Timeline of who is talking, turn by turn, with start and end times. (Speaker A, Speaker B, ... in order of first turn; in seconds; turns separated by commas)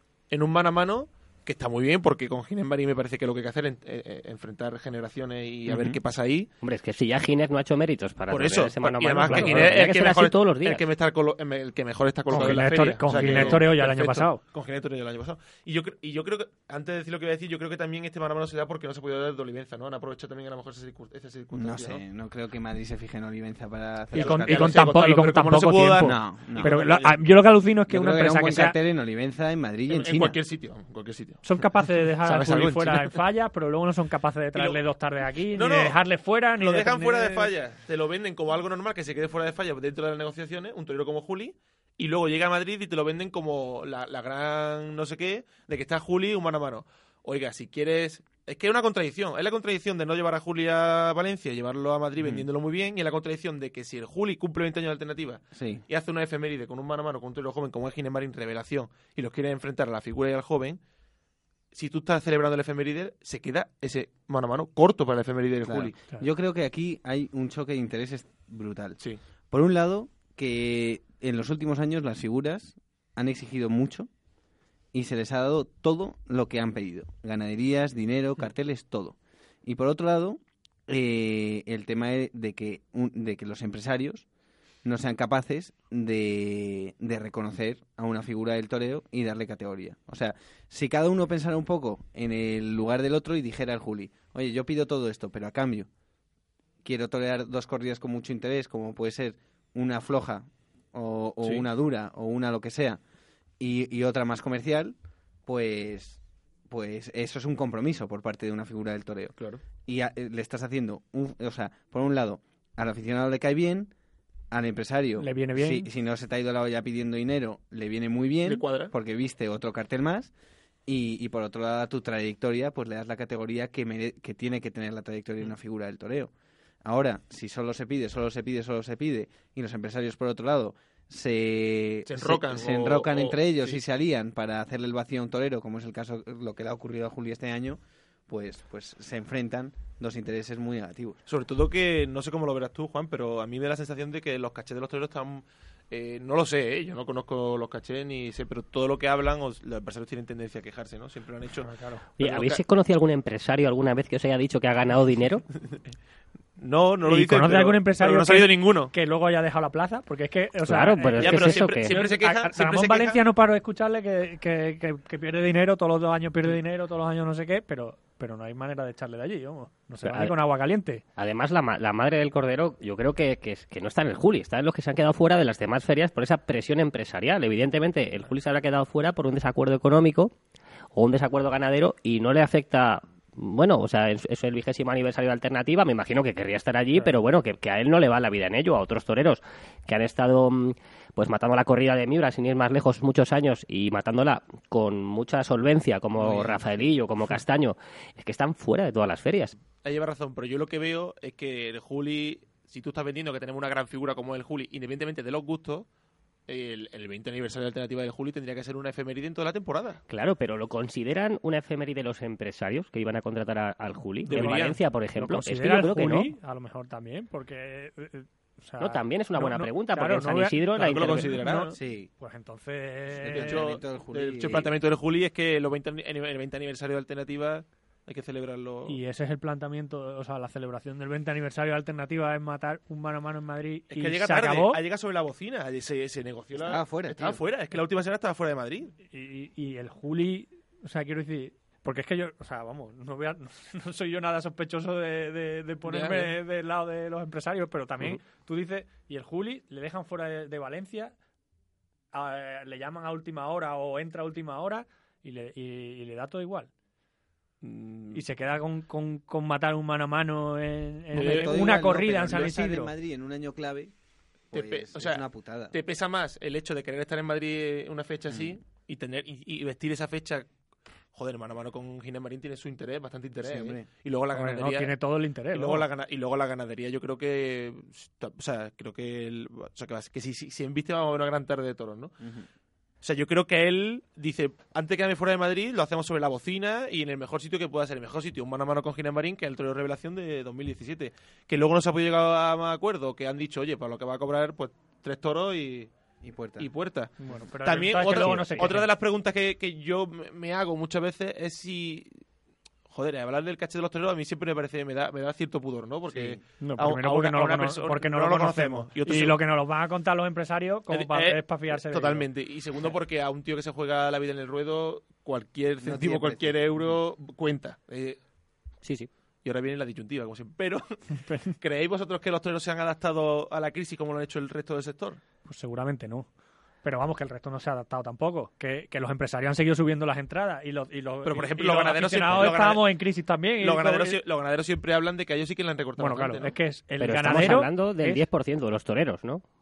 Speaker A: 0.3-6.5, Speaker B: 5.7-6.0, Speaker C: 6.6-10.8, Speaker A: 8.3-22.0, Speaker D: 9.3-9.7, Speaker D: 12.3-14.4, Speaker B: 13.2-13.5, Speaker B: 21.5-24.8, Speaker D: 24.1-28.8, Speaker A: 24.1-27.2, Speaker B: 26.0-26.7, Speaker B: 27.9-30.4, Speaker A: 29.9-31.4, Speaker D: 31.4-37.5, Speaker A: 32.2-33.2, Speaker A: 34.5-34.8, Speaker A: 35.5-36.0, Speaker A: 36.5-60.8, Speaker B: 52.2-52.5, Speaker B: 55.5-55.8, Speaker A: 61.7-66.0, Speaker B: 65.6-69.0, Speaker B: 69.5-74.1, Speaker B: 74.9-84.2, Speaker B: 84.8-95.9, Speaker B: 96.8-103.0, Speaker A: 101.4-101.7, Speaker B: 103.6-113.9, Speaker A: 109.4-109.6, Speaker B: 114.5-120.3, Speaker D: 115.2-115.9, Speaker A: 118.4-118.9, Speaker B: 120.8-126.3, Speaker B: 126.8-141.2, Speaker A: 132.1-133.8, Speaker A: 141.3-152.6, Speaker D: 151.6-152.1, Speaker C: 152.2-155.4, Speaker A: 156.6-158.9, Speaker D: 157.0-171.0, Speaker C: 160.6-162.0, Speaker A: 161.2-163.2, Speaker C: 170.0-170.3, Speaker C: 171.2-180.3, Speaker C: 180.9-199.6, Speaker B: 196.2-196.5, Speaker A: 199.8-205.9, Speaker A: 206.5-210.0, Speaker C: 210.1-216.3, Speaker A: 214.2-214.8, Speaker D: 214.3-223.6, Speaker C: 218.8-221.4, Speaker A: 220.8-221.7, Speaker B: 221.7-222.1, Speaker B: 223.2-224.7, Speaker A: 223.2-229.0, Speaker D: 228.9-234.8, Speaker A: 233.9-238.9, Speaker B: 236.6-237.4, Speaker D: 239.0-251.1, Speaker A: 245.8-246.3, Speaker D: 252.1-256.7, Speaker A: 257.6-258.2, Speaker D: 258.1-262.9, Speaker B: 261.1-263.9, Speaker A: 261.1-261.7, Speaker B: 264.5-265.8, Speaker A: 264.5-270.5, Speaker B: 268.3-268.6, Speaker A: 271.1-275.0, Speaker B: 273.4-273.9, Speaker D: 274.3-275.9, Speaker A: 275.5-282.1, Speaker B: 282.2-282.5, Speaker A: 283.0-295.9, Speaker B: 296.2-296.7, Speaker A: 296.6-302.2, Speaker D: 297.2-298.9, Speaker A: 302.9-309.4, Speaker B: 306.1-306.4, Speaker D: 306.6-312.3, Speaker A: 310.9-318.2, Speaker B: 315.8-317.0, Speaker C: 318.8-319.1, Speaker A: 319.4-320.9, Speaker D: 321.2-321.5, Speaker A: 321.6-325.2, Speaker D: 325.4-326.3, Speaker D: 326.8-334.2, Speaker A: 331.2-332.9, Speaker A: 333.6-336.6, Speaker D: 336.0-338.2, Speaker C: 337.0-339.4